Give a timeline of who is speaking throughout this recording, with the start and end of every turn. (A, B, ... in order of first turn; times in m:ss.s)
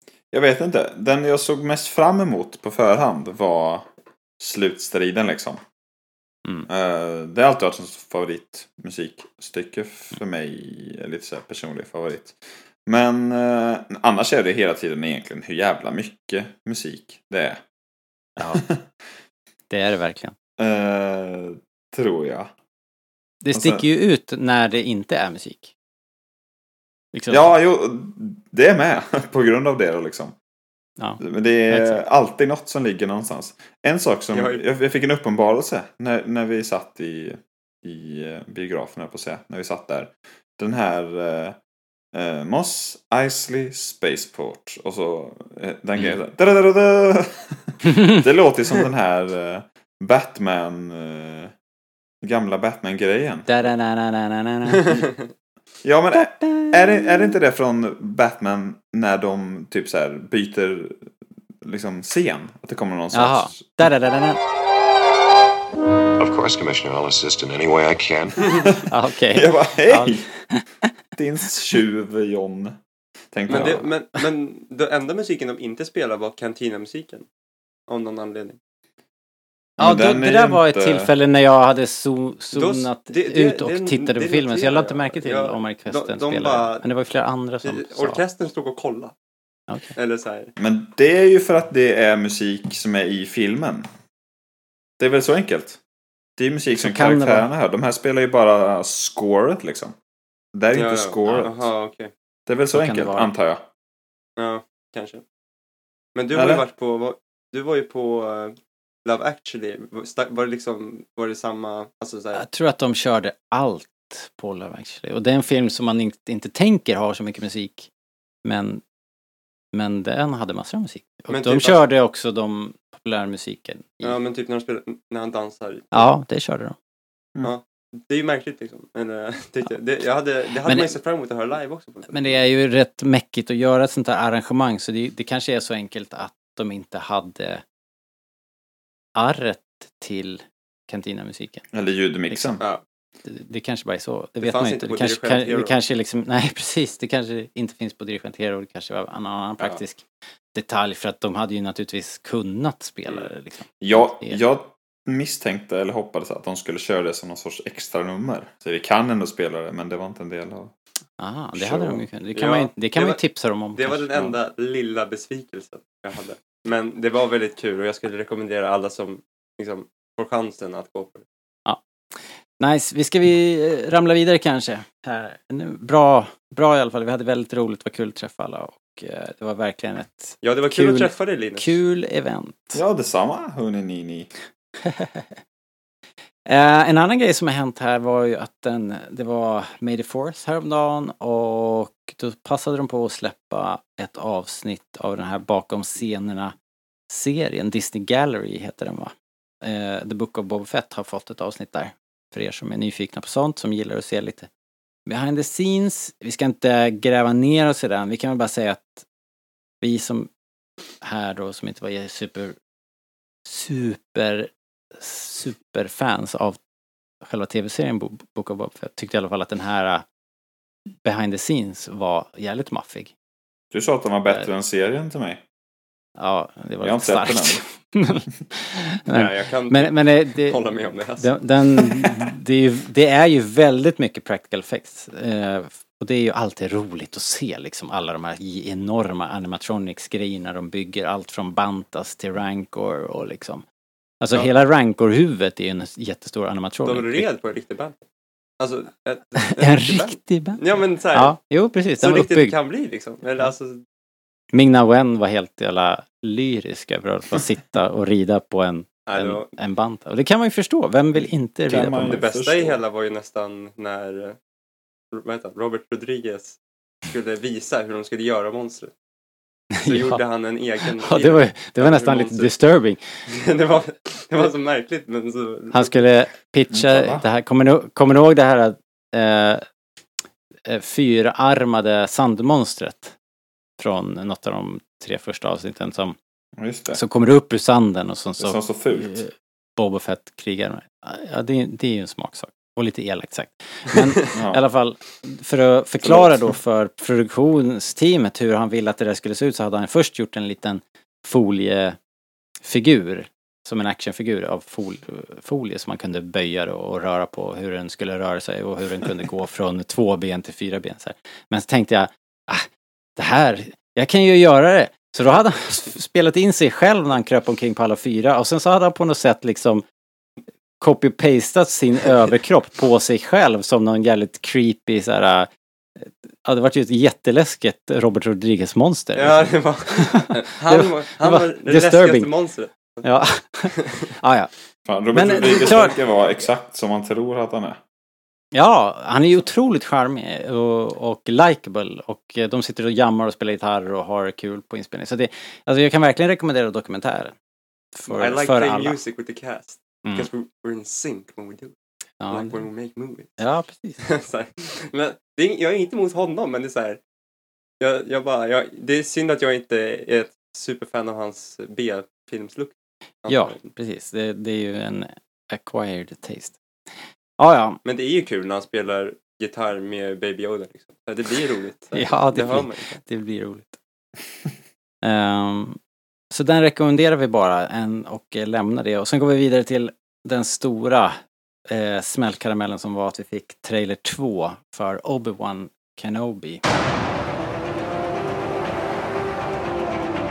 0:00.3-0:03.9 A
0:04.4-0:05.6 A
0:06.7-0:17.6 A
0:18.4-0:18.6 B
0:19.7-0:20.4 B
0:20.6-0:22.5 A
0:23.4-0:25.7 B
0:23.5-0:23.8 A
0:27.1-0:27.5 B
0:27.3-0:30.4 A
0:31.0-0:32.0 B
0:31.2-0:41.6 A
0:34.3-0:34.6 C
0:42.1-0:51.5 A
0:52.2-0:53.5 A
0:53.5-0:55.0 B
0:55.8-1:01.1 A
0:56.1-0:57.3 B
1:01.6-1:03.8 A
1:03.1-1:04.4 B
1:06.2-1:08.5 D
1:08.9-1:10.6 B
1:09.3-1:10.3 A
1:11.2-1:12.8 A
1:13.3-1:13.9 A
1:13.5-1:17.3 C
1:17.9-1:18.6 C
1:19.8-1:21.1 A
1:19.8-1:28.2 B
1:22.5-1:26.8 C
1:27.6-1:29.1 C
1:30.0-1:30.5 C
1:30.6-1:33.9 A
1:35.0-1:35.8 A
1:36.4-1:40.0 A
1:36.8-1:37.5 B
1:40.5-1:41.7 A
1:40.7-1:42.1 C
1:42.5-1:43.7 A
1:42.7-1:43.3 B
1:44.4-1:45.2 C
1:46.2-1:52.4 C
1:46.3-1:46.6 A
1:52.3-1:57.9 B
1:58.4-1:58.8 B
1:59.7-2:04.2 B
2:01.3-2:01.9 C
2:04.0-2:06.1 C
2:05.9-2:06.8 B
2:07.4-2:12.4 C
2:10.6-2:10.9 B
2:12.1-2:17.6 B
2:19.2-2:21.6 B
2:21.7-2:22.6 A
2:22.3-2:22.6 B
2:23.2-2:34.4 B
2:24.4-2:25.8 C
2:33.8-2:40.7 A
2:41.2-2:44.3 B
2:41.6-2:42.0 A
2:42.3-2:43.2 C
2:43.8-2:51.2 C
2:51.7-3:02.8 B
3:00.4-3:01.7 C
3:02.7-3:04.3 A
3:04.8-3:05.3 B
3:06.5-3:16.5 B
3:17.1-3:24.5 B
3:25.1-3:29.1 B
3:29.8-3:30.3 B
3:31.0-3:32.6 B
3:33.4-3:36.6 B
3:37.2-3:40.0 B
3:41.0-3:43.1 B
3:43.7-3:45.4 A
3:46.2-3:50.6 B
3:46.8-3:47.6 A
3:49.1-3:52.2 C
3:51.2-4:03.6 B
4:04.2-4:07.3 B
4:06.8-4:08.0 C
4:08.6-4:11.4 C
4:09.6-4:10.6 B
4:11.2-4:12.5 B
4:12.0-4:13.8 C
4:14.5-4:22.2 B
4:19.1-4:19.5 C
4:21.7-4:22.8 A
4:22.0-4:24.4 C
4:25.1-4:28.9 C
4:29.8-4:30.2 B
4:29.9-4:32.5 C
4:31.0-4:33.0 B
4:33.3-4:36.1 C
4:35.7-4:39.6 B
4:36.7-4:37.2 A
4:40.7-4:43.2 B
4:43.8-4:46.2 B
4:46.6-4:47.0 A
4:46.9-5:02.0 B
4:48.4-4:49.2 A
4:54.3-4:54.6 A
4:56.0-4:56.4 A
5:02.6-5:19.8 B
5:20.8-5:32.3 B
5:29.2-5:33.1 C
5:33.0-5:34.5 B
5:33.7-5:34.1 C
5:34.9-5:37.8 A
5:35.1-5:36.0 B
5:38.5-5:47.3 B
5:48.0-5:49.0 B
5:48.1-5:51.7 C
5:50.0-5:50.3 B
5:52.2-5:52.6 B
5:52.3-5:53.3 C
5:53.4-5:54.0 B
5:54.0-5:57.0 C
5:57.8-6:03.6 C
6:03.3-6:06.6 B
6:07.4-6:07.8 B
6:07.8-6:13.0 C
6:11.9-6:13.8 B
6:15.0-6:15.8 B
6:16.3-6:21.2 B
6:21.7-6:26.6 B